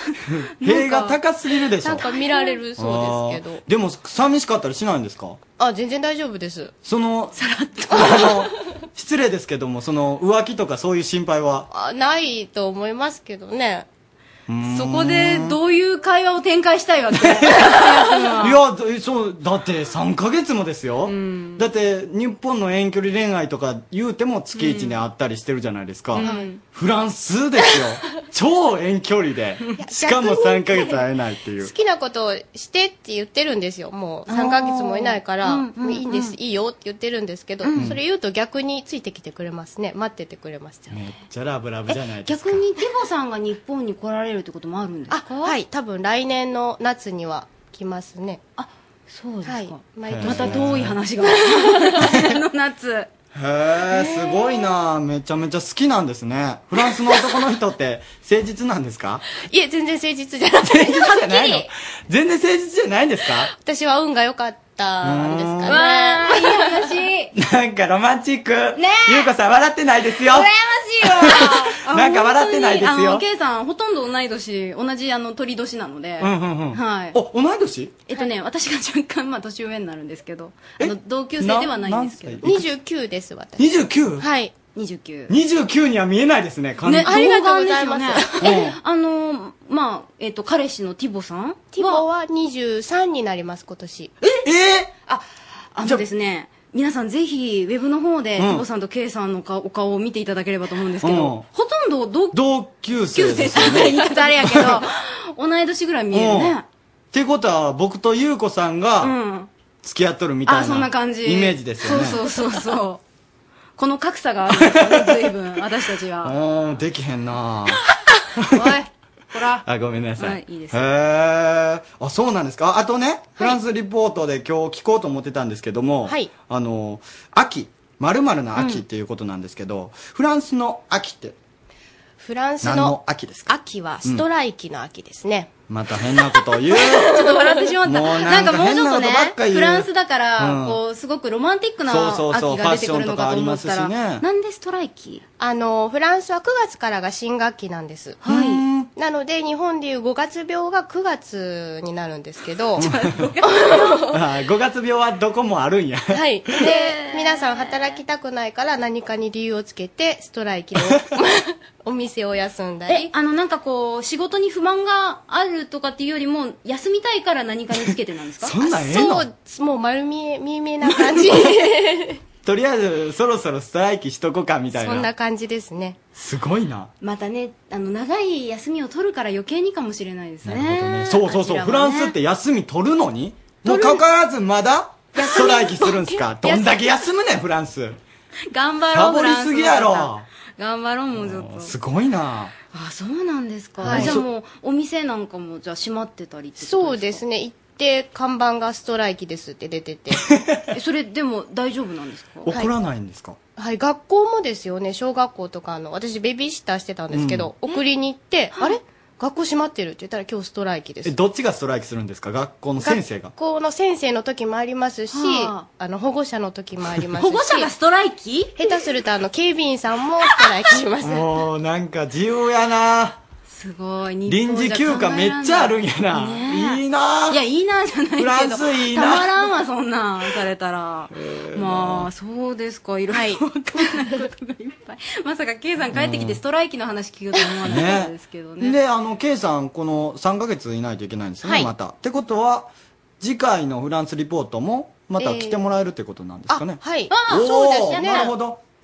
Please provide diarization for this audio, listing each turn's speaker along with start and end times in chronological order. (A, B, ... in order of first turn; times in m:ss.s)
0:00.2-0:02.0 A
0:00.6-0:01.2 B
0:01.8-0:03.6 C
0:02.1-0:02.5 B
0:02.8-0:05.4 A
0:05.6-0:06.7 C
0:06.8-0:07.3 A
0:07.4-0:08.3 B
0:07.9-0:11.7 A
0:11.7-0:13.9 C
0:14.5-0:15.6 A
0:14.6-0:18.6 B
0:17.2-0:31.7 A
0:21.0-0:21.6 B
0:24.5-0:25.0 B
0:26.1-0:26.6 B
0:26.2-0:26.5 C
0:29.8-0:31.0 C
0:31.6-0:41.0 C
0:34.3-0:36.3 B
0:37.6-0:37.9 B
0:40.9-0:42.6 A
0:41.9-0:45.6 B
0:45.1-0:48.4 C
0:48.6-0:53.1 B
0:49.4-0:52.1 C
0:50.1-0:51.0 A
0:52.0-0:52.3 A
0:53.3-0:59.2 A
0:59.4-1:01.2 C
1:00.6-1:03.5 A
1:01.0-1:01.7 B
1:03.5-1:06.9 C
1:05.0-1:05.8 A
1:05.6-1:07.3 B
1:07.3-1:10.5 A
1:08.8-1:09.3 B
1:10.3-1:17.2 B
1:11.0-1:13.2 A
1:16.2-1:18.0 A
1:18.1-1:22.5 B
1:20.8-1:22.6 A
1:22.4-1:24.5 C
1:23.6-1:24.2 A
1:24.7-1:25.3 B
1:25.3-1:27.1 A
1:26.8-1:32.0 B
1:27.0-1:28.6 C
1:28.4-1:28.7 A
1:31.7-1:34.1 C
1:34.4-1:34.9 A
1:35.1-1:42.4 B
1:38.4-1:38.6 A
1:41.0-1:41.4 A
1:42.3-1:44.8 A
1:43.1-1:46.6 B
1:46.1-1:46.5 A
1:47.1-1:49.1 A
1:49.0-1:49.5 B
1:49.8-1:52.2 A
1:50.4-1:53.0 B
1:53.8-1:56.3 B
1:54.5-1:55.1 A
1:56.2-1:57.8 A
1:58.4-1:58.8 A
1:58.5-1:59.6 B
1:59.6-2:11.3 A
2:00.2-2:00.8 B
2:06.0-2:06.3 C
2:08.5-2:08.8 B
2:12.2-2:13.0 C
2:12.6-2:13.5 A
2:13.5-2:15.5 C
2:15.7-2:20.8 A
2:16.7-2:17.4 C
2:17.1-2:25.2 B
2:21.9-2:24.2 A
2:25.4-2:28.2 C
2:28.2-2:28.6 B
2:28.2-2:28.9 A
2:29.0-2:32.8 C
2:32.8-2:34.1 B
2:32.8-2:33.3 A
2:33.4-2:34.2 C
2:34.1-2:36.2 A
2:36.1-2:43.1 C
2:36.6-2:38.0 B
2:42.9-2:49.1 B
2:48.4-2:49.2 A
2:48.7-2:52.2 C
2:52.4-2:55.1 A
2:54.7-2:56.0 C
2:56.2-2:56.9 A
2:57.0-3:02.1 B
3:00.4-3:08.0 A
3:03.6-3:04.0 B
3:05.2-3:06.6 C
3:05.2-3:05.5 B
3:08.5-3:11.7 B
3:08.9-3:10.2 A
3:11.1-3:12.5 A
3:12.7-3:17.2 B
3:13.8-3:14.2 A
3:13.8-3:14.2 C
3:16.6-3:20.2 C
3:20.7-3:22.5 B
3:22.4-3:23.4 A
3:23.6-3:31.2 C
3:27.1-3:27.5 A
3:31.0-3:33.3 A
3:32.8-3:37.7 C
3:35.1-3:35.6 B
3:37.2-3:38.7 B
3:38.6-3:41.3 C
3:41.0-3:43.2 A
3:43.5-3:58.7 B
3:44.3-3:47.4 A
3:48.2-3:49.3 A
3:51.1-3:52.1 A
3:55.9-3:56.4 A
3:57.6-4:08.6 A
4:01.4-4:01.7 C
4:05.2-4:05.6 C
4:06.5-4:08.3 C
4:07.1-4:08.3 B